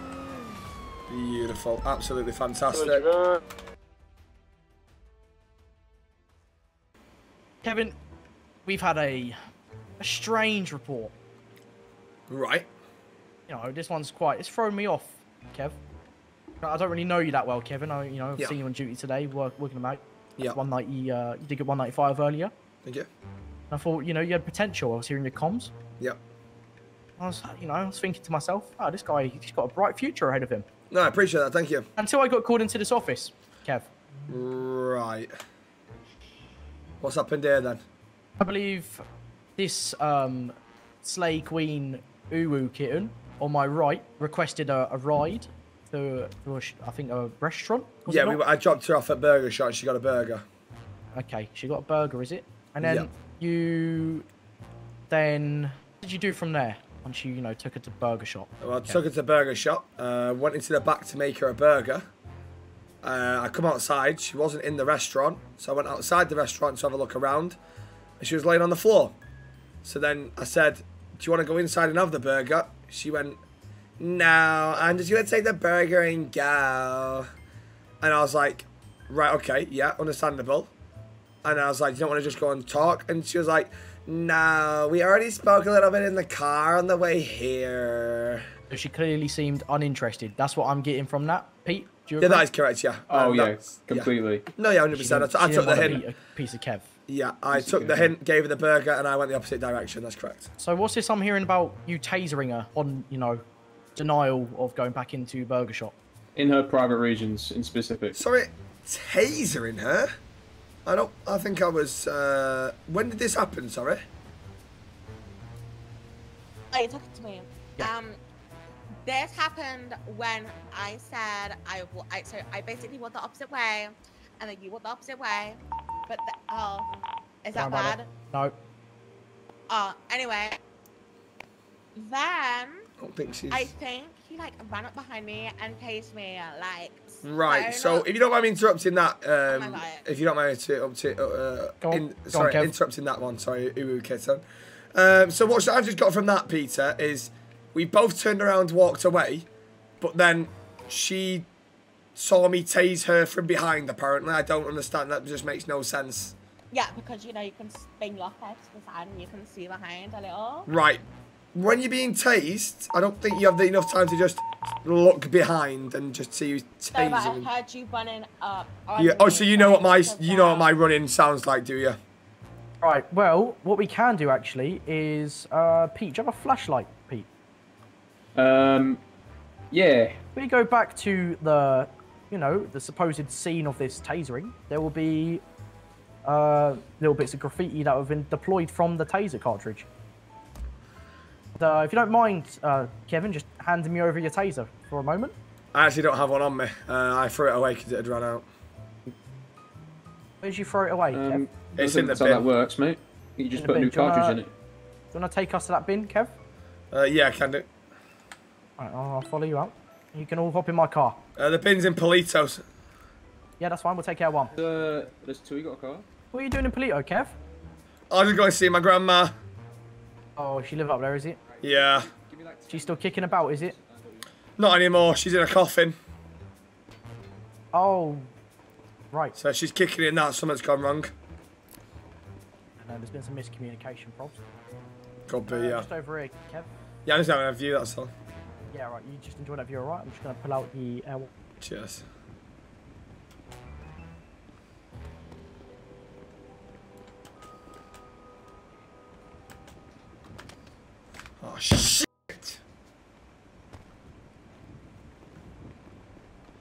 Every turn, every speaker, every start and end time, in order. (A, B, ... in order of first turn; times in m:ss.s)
0:01.1-0:03.1 A
0:07.6-0:08.0 B
0:08.7-0:09.4 B
0:10.0-0:11.1 B
0:12.3-0:12.7 A
0:13.5-0:15.8 B
0:16.6-0:22.5 B
0:23.7-0:25.7 B
0:27.2-0:30.7 B
0:30.9-0:31.9 A
0:32.0-0:33.9 B
0:34.3-0:35.3 A
0:37.0-0:37.8 A
0:38.4-0:39.0 B
0:39.6-0:48.4 B
0:48.1-0:50.4 A
0:51.1-0:54.3 B
0:52.8-0:53.1 A
0:55.1-0:59.0 B
0:58.6-1:02.0 A
1:03.0-1:07.6 A
1:08.2-1:09.2 A
1:09.8-1:13.4 A
1:14.0-1:17.3 A
1:18.0-1:20.7 A
1:21.4-1:28.4 A
1:28.7-1:32.4 B
1:32.2-1:36.0 A
1:33.1-1:34.4 C
1:34.9-1:36.8 B
1:37.1-1:40.5 A
1:37.5-1:38.1 C
1:40.6-1:43.4 B
1:44.0-1:45.9 B
1:46.4-1:48.2 C
1:48.2-1:50.1 A
1:50.9-1:54.0 A
1:56.7-1:58.2 D
1:59.0-2:06.9 D
2:07.4-2:08.1 D
2:07.6-2:08.6 B
2:09.7-2:10.6 D
2:12.0-2:12.8 D
2:13.0-2:13.7 A
2:13.5-2:18.0 D
2:17.2-2:24.4 A
2:19.5-2:20.0 D
2:21.8-2:22.7 B
2:25.0-2:29.5 A
2:30.0-2:31.5 A
2:32.2-2:36.4 A
2:36.7-2:40.7 D
2:40.7-2:41.0 A
2:41.5-2:47.5 A
2:46.9-2:50.7 D
2:49.0-2:52.0 A
2:52.8-2:57.3 B
2:58.4-2:59.0 C
2:59.7-3:00.2 C
3:00.4-3:05.4 B
3:06.2-3:09.9 B
3:11.6-3:15.4 B
3:15.7-3:18.5 A
3:20.4-3:21.5 B
3:21.1-3:24.5 C
3:21.8-3:22.4 A
3:23.6-3:24.4 B
3:25.1-3:26.4 B
3:26.9-3:27.7 A
3:28.8-3:31.2 B
3:31.4-3:32.6 A
3:33.6-3:34.6 B
3:34.5-3:36.1 C
3:36.3-3:37.4 B
3:38.1-3:39.4 A
3:40.4-3:41.4 B
3:41.5-3:44.3 C
3:41.6-3:42.1 A
3:42.7-3:43.8 B
3:44.6-3:46.0 A
3:47.7-3:48.3 B
3:49.4-3:51.1 A
3:52.8-3:54.4 B
3:55.3-3:55.9 A
3:55.5-3:56.7 B
3:57.1-3:58.1 A
3:58.7-4:01.3 B
4:01.6-4:02.0 A
4:11.4-4:12.6 A